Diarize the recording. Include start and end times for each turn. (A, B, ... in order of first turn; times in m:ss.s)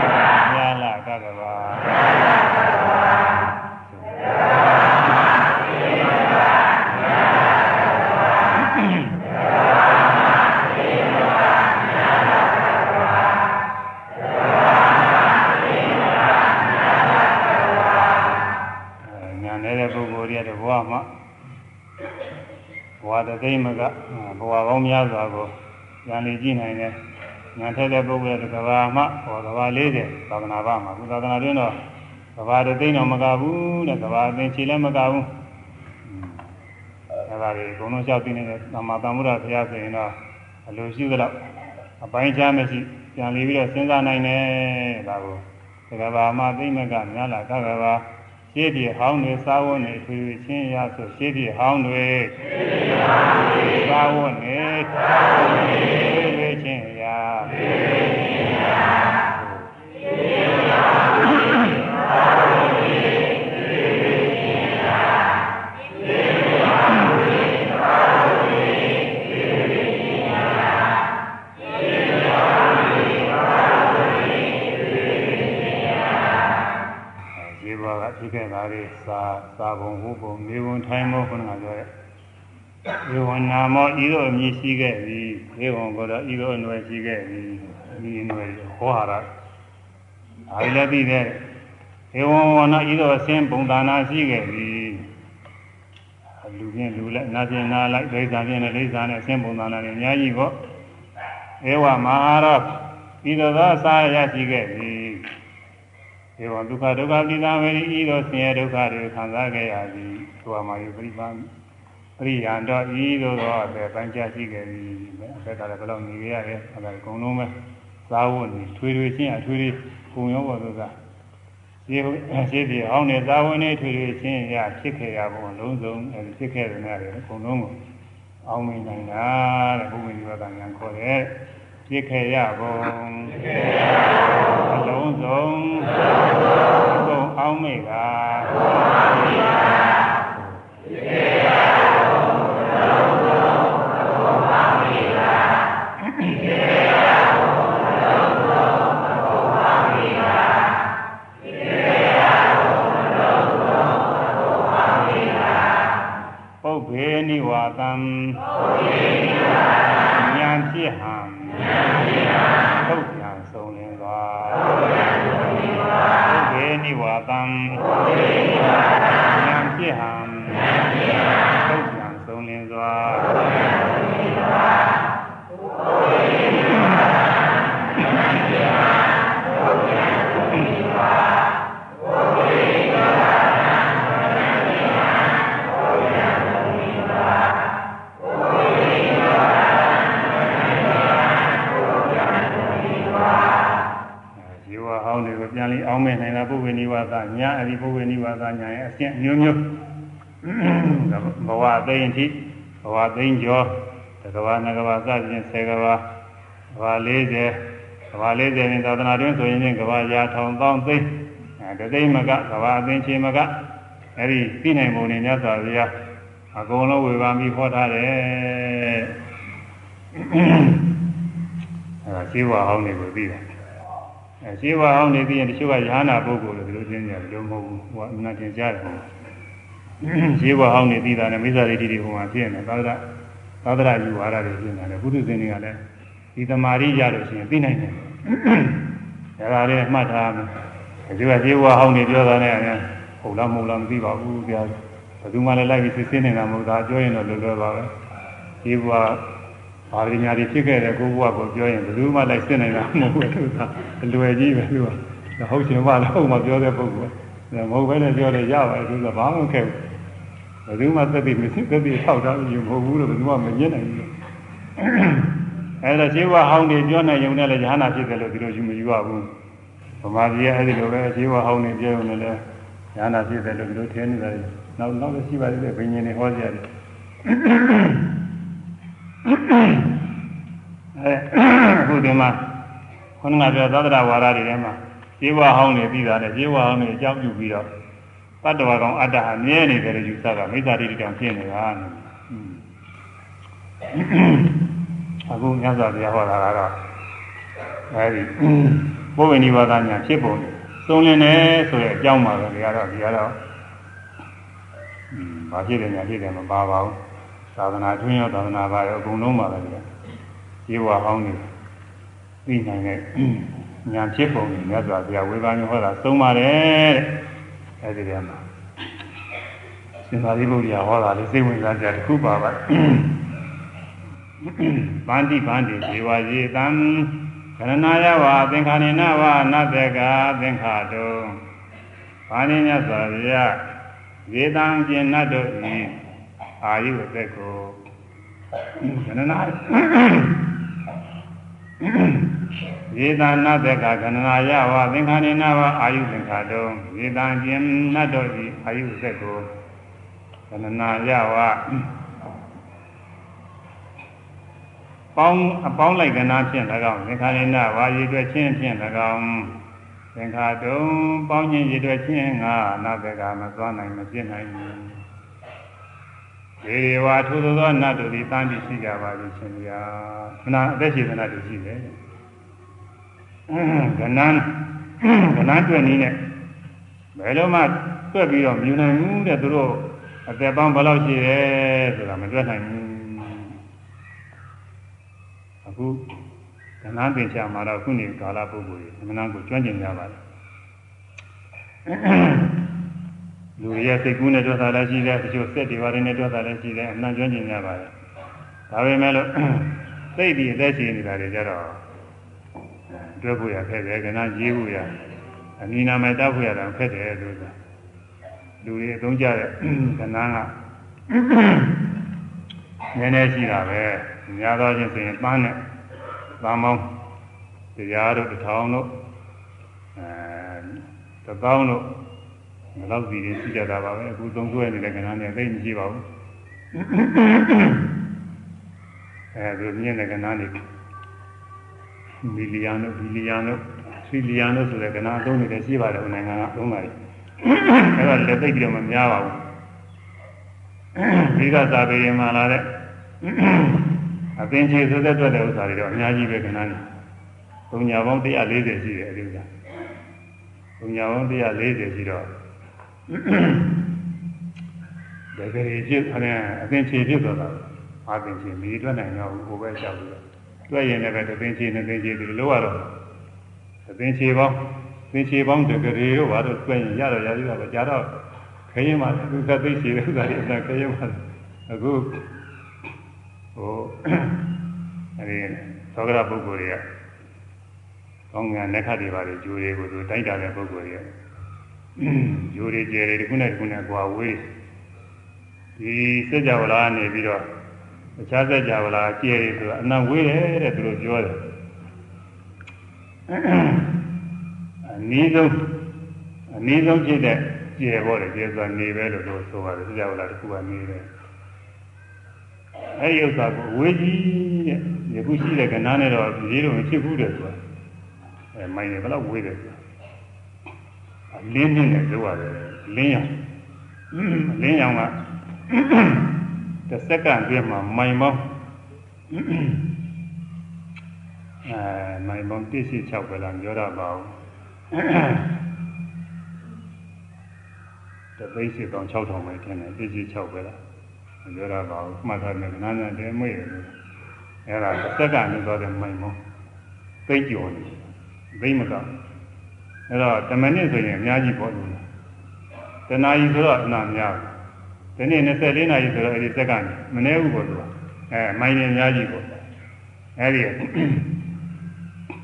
0:00.2-0:02.0 A
0:03.8-0:04.2 A
0:08.6-0:09.2 A
0:19.0-0:21.1 A
0:23.0-0:27.0 A
0:27.5-0:31.8 A
0:32.3-0:35.3 A
0:36.1-0:36.4 A
0:37.3-0:41.4 A
0:42.0-0:52.5 A
0:53.6-0:55.0 A
0:55.6-0:57.6 A
0:59.3-0:59.7 A
1:17.4-1:21.9 A
1:22.9-1:29.3 A
1:30.5-1:31.4 A
1:32.1-1:35.1 A
1:36.4-1:40.6 A
1:41.6-1:45.3 A
1:46.4-1:51.5 A
1:52.2-1:57.5 A
1:58.0-2:00.9 A
2:01.8-2:07.8 A
2:08.4-2:11.4 A
2:11.9-2:13.6 A
2:14.6-2:16.0 A
2:16.7-2:18.7 A
2:26.1-2:26.4 A
2:36.6-2:38.5 A
2:40.1-2:41.8 A
2:42.8-2:44.8 A
2:46.2-2:47.9 A
2:49.3-2:50.7 A
2:51.6-2:53.4 A
3:14.4-3:19.7 A
3:20.4-3:26.0 A
3:26.7-3:33.6 A
3:34.2-3:35.9 A
3:36.5-3:39.1 A
3:40.1-3:41.0 A
3:42.0-3:43.4 A
3:44.4-3:49.1 A
3:50.0-3:53.0 A
3:53.6-3:55.8 A
3:56.3-3:58.8 A
3:59.4-4:00.5 A
4:01.1-4:07.9 A
4:08.6-4:09.2 A
4:09.9-4:19.8 A
4:20.6-4:24.1 A
4:24.8-4:29.3 A
4:30.0-4:32.4 A
4:32.9-4:36.7 A
4:37.2-4:38.1 A
4:39.2-4:40.0 A
4:40.9-4:42.5 A
4:43.2-4:47.7 A
4:48.4-4:52.6 A
4:53.9-4:54.7 A
4:55.2-4:56.8 A
4:57.9-5:03.4 A
5:05.1-5:07.0 A
5:07.5-5:09.8 A
5:10.6-5:11.5 A
5:12.4-5:17.2 A
5:17.8-5:18.4 A
5:20.0-5:23.2 A
5:24.4-5:31.4 A
5:32.3-5:33.6 A
5:34.2-5:36.0 A
5:36.6-5:37.8 A
5:38.7-5:40.5 A
5:41.8-5:42.3 A
5:42.9-5:49.5 A
5:50.5-5:51.9 A
5:55.1-5:59.6 A
6:00.1-6:05.0 A
6:06.6-6:11.9 A
6:13.5-6:16.2 A
6:17.1-6:23.6 A
6:25.6-6:26.0 A
6:26.8-6:30.2 A
6:31.8-6:32.6 A
6:33.6-6:37.9 A
6:38.7-6:41.8 A
6:42.9-6:44.9 A
6:45.6-6:47.5 A
6:48.6-6:50.5 A
6:51.1-6:51.8 A
6:52.9-6:55.6 A
6:56.4-6:56.9 A
6:57.7-6:58.9 A
6:59.9-7:01.9 A
7:02.7-7:06.0 A
7:06.7-7:07.9 A
7:09.3-7:10.6 A
7:12.2-7:19.4 A
7:20.9-7:22.7 A
7:23.2-7:26.8 A
7:27.7-7:29.5 A
7:30.8-7:32.3 A
7:33.1-7:33.8 A
7:35.3-7:42.9 A
7:43.8-7:48.1 A
7:48.7-7:52.2 A
7:53.5-7:54.4 A
7:55.2-7:56.8 A
7:58.3-8:01.1 A
8:02.0-8:04.5 A
8:05.8-8:07.5 A
8:08.2-8:11.4 A
8:13.3-8:14.0 A
8:14.8-8:15.8 A
8:16.5-8:21.1 A
8:23.0-8:27.6 A
8:28.5-8:29.8 A
8:31.3-8:33.3 A
8:34.1-8:35.1 A
8:35.7-8:36.4 A
8:36.9-8:38.5 A
8:39.3-8:39.8 A
8:41.6-8:44.4 A
8:44.9-8:45.6 A
8:48.4-8:50.8 A
8:51.4-8:53.9 A
8:54.6-8:56.4 A
8:57.3-8:59.1 A
9:00.1-9:02.0 A
9:03.1-9:04.5 A
9:05.2-9:09.5 A
9:10.4-9:11.3 A